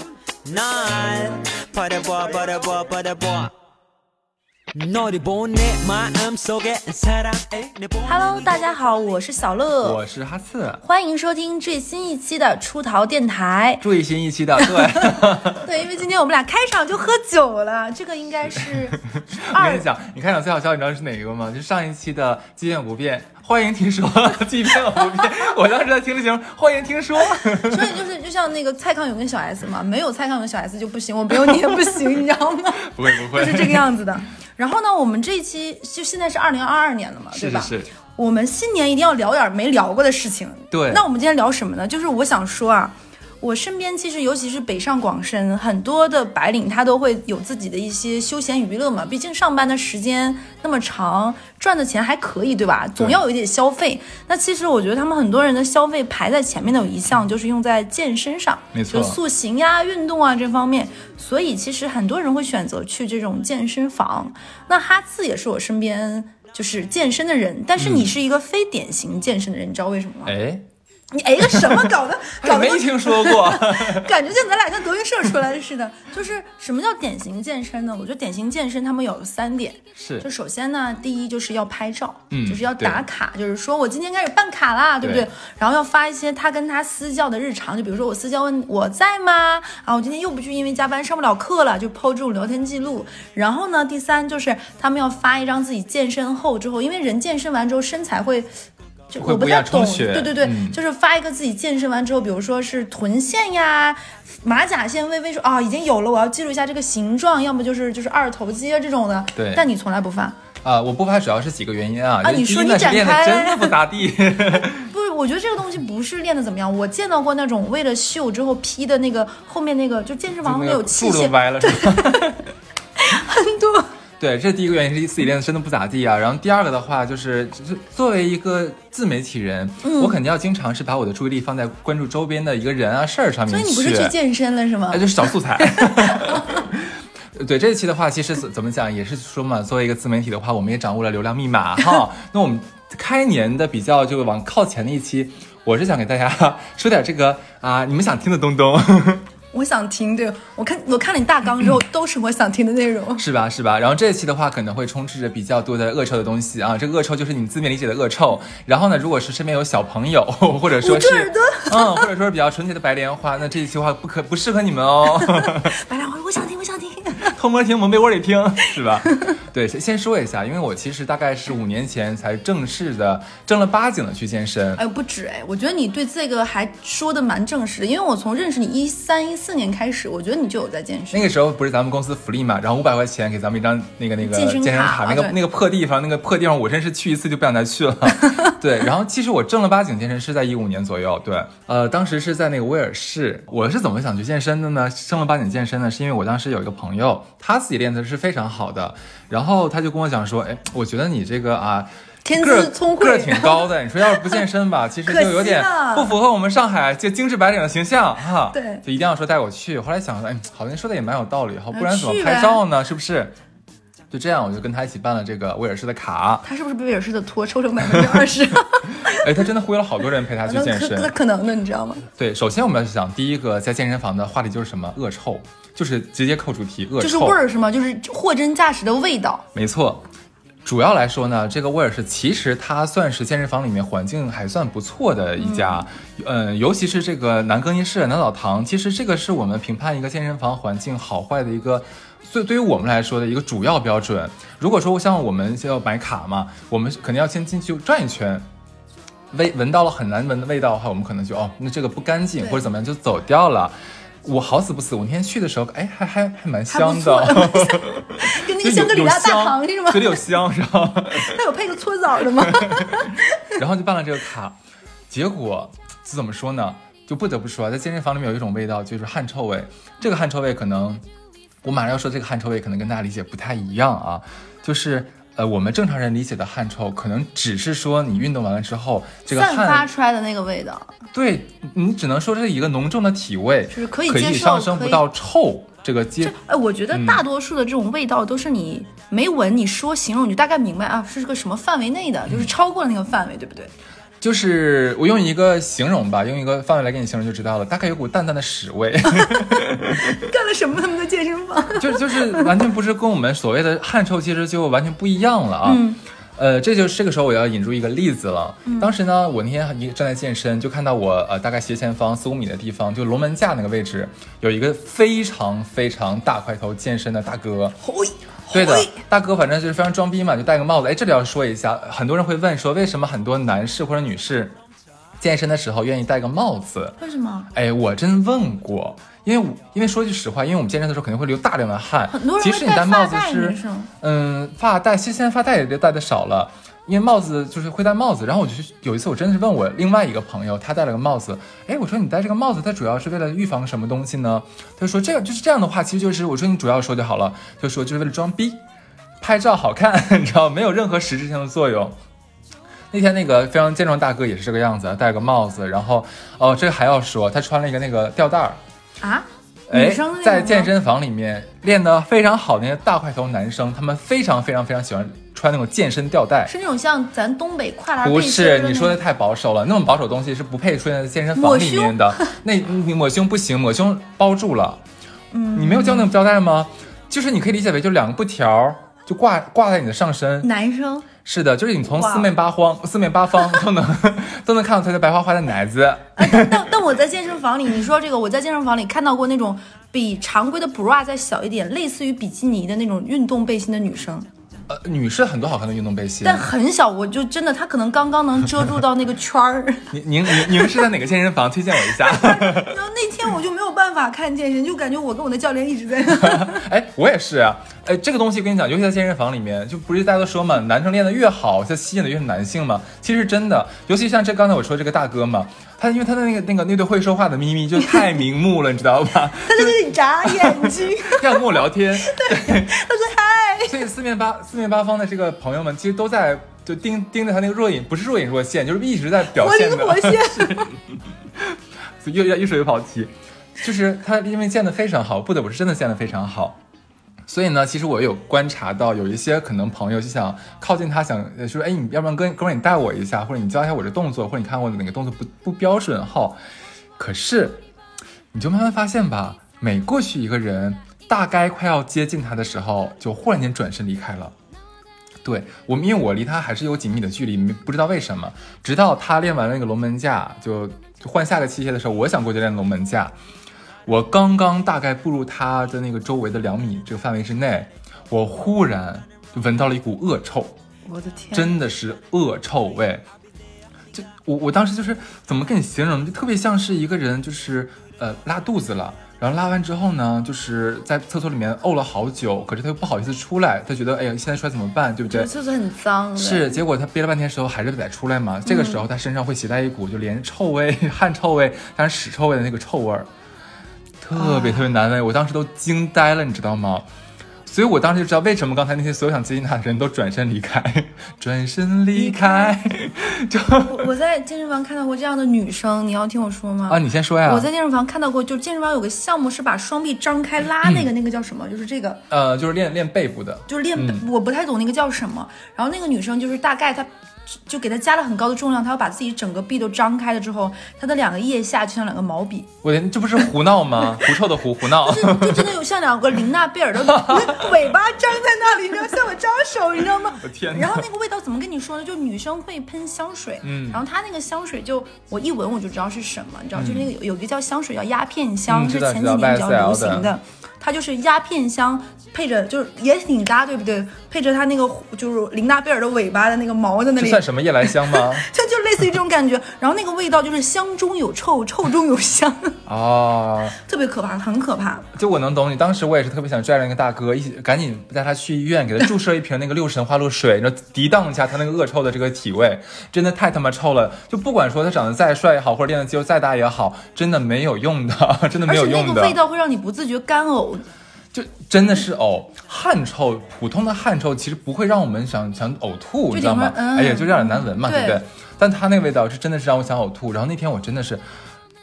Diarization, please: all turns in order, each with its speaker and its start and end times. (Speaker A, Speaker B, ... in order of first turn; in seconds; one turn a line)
Speaker A: 0.4-3.5
Speaker A: 4.7-8.6
Speaker B: 8.0-10.0
Speaker C: 9.8-10.8
Speaker B: 10.8-13.8
Speaker C: 13.8-15.6
Speaker B: 14.7-19.9
Speaker C: 19.0-27.9
Speaker B: 27.6-70.3
Speaker C: 32.9-33.9
Speaker C: 37.3-37.9
Speaker C: 40.7-41.0
Speaker C: 58.7-59.2
Speaker C: 67.8-68.1
Speaker C: 70.2-70.7
Speaker B: 71.1-98.5
Speaker C: 71.4-71.8
Speaker C: 72.4-74.1
Speaker C: 80.0-80.3
Speaker C: 82.3-83.0
Speaker C: 85.0-85.3
Speaker B: 99.1-110.4
Speaker C: 99.2-100.8
Speaker C: 109.3-109.6
Speaker C: 110.6-114.9
Speaker B: 112.2-113.8
Speaker B: 114.8-122.2
Speaker C: 120.4-122.5
Speaker B: 123.0-123.9
Speaker C: 124.2-134.1
Speaker B: 129.8-130.2
Speaker B: 133.5-136.6
Speaker C: 134.9-149.2
Speaker B: 149.5-153.2
Speaker C: 153.2-165.7
Speaker B: 160.8-162.1
Speaker B: 165.2-167.3
Speaker C: 167.2-174.8
Speaker B: 174.7-181.3
Speaker C: 181.1-213.3
Speaker B: 184.2-185.3
Speaker B: 202.2-204.4
Speaker B: 205.1-206.2
Speaker B: 208.5-208.8
Speaker B: 211.7-212.6
Speaker C: 214.1-216.4
Speaker B: 216.4-219.4
Speaker C: 219.0-221.1
Speaker B: 220.5-222.1
Speaker C: 222.1-227.4
Speaker B: 227.0-229.4
Speaker C: 229.5-230.1
Speaker C: 230.6-248.4
Speaker B: 235.4-235.8
Speaker C: 249.3-261.4
Speaker B: 252.4-252.7
Speaker B: 256.7-260.2
Speaker B: 261.1-263.5
Speaker C: 262.4-264.6
Speaker C: 265.1-271.0
Speaker C: 271.6-279.9
Speaker B: 279.3-280.9
Speaker C: 281.1-286.3
Speaker B: 283.7-285.0
Speaker B: 286.2-293.7
Speaker C: 286.9-287.2
Speaker C: 294.2-300.2
Speaker B: 299.1-302.5
Speaker C: 301.8-305.8
Speaker B: 305.6-306.0
Speaker C: 306.4-317.7
Speaker B: 317.8-319.0
Speaker C: 318.5-324.6
Speaker C: 325.2-327.0
Speaker B: 327.0-327.5
Speaker C: 327.5-348.6
Speaker B: 332.1-333.9
Speaker C: 349.2-352.0
Speaker C: 352.9-358.6
Speaker B: 359.0-360.7
Speaker C: 359.7-366.5
Speaker B: 366.5-369.0
Speaker C: 368.0-374.8
Speaker B: 371.4-372.4
Speaker B: 375.3-376.1
Speaker C: 375.5-380.5
Speaker B: 380.4-381.1
Speaker C: 381.2-386.7
Speaker B: 381.9-382.3
Speaker B: 386.2-394.3
Speaker C: 394.7-396.5
Speaker B: 396.2-400.8
Speaker C: 399.9-402.7
Speaker B: 401.9-406.6
Speaker C: 406.1-422.7
Speaker B: 419.5-423.8
Speaker C: 423.7-430.7
Speaker B: 429.3-430.7
Speaker C: 431.4-436.6
Speaker C: 437.3-446.4
Speaker C: 447.0-447.6
Speaker C: 448.3-454.3
Speaker C: 455.2-463.1
Speaker C: 463.9-470.6
Speaker B: 470.9-471.5
Speaker C: 471.3-473.0
Speaker C: 473.9-485.3
Speaker B: 485.1-486.6
Speaker C: 486.2-493.1
Speaker B: 488.4-488.8
Speaker C: 494.0-496.9
Speaker B: 494.1-494.6
Speaker C: 497.4-503.9
Speaker B: 501.9-502.6
Speaker B: 503.6-512.0
Speaker C: 506.7-507.5
Speaker C: 510.6-510.9
Speaker C: 512.1-514.0
Speaker B: 513.5-522.5
Speaker C: 522.6-525.5
Speaker B: 524.0-552.5
Speaker C: 526.8-527.6
Speaker C: 530.2-530.8
Speaker C: 533.4-533.8
Speaker C: 536.5-536.9
Speaker C: 538.5-540.1
Speaker C: 547.0-548.3
Speaker C: 552.6-553.6
Speaker B: 553.6-554.9
Speaker C: 554.9-569.2
Speaker B: 568.5-570.6
Speaker C: 571.1-581.0
Speaker B: 576.1-578.0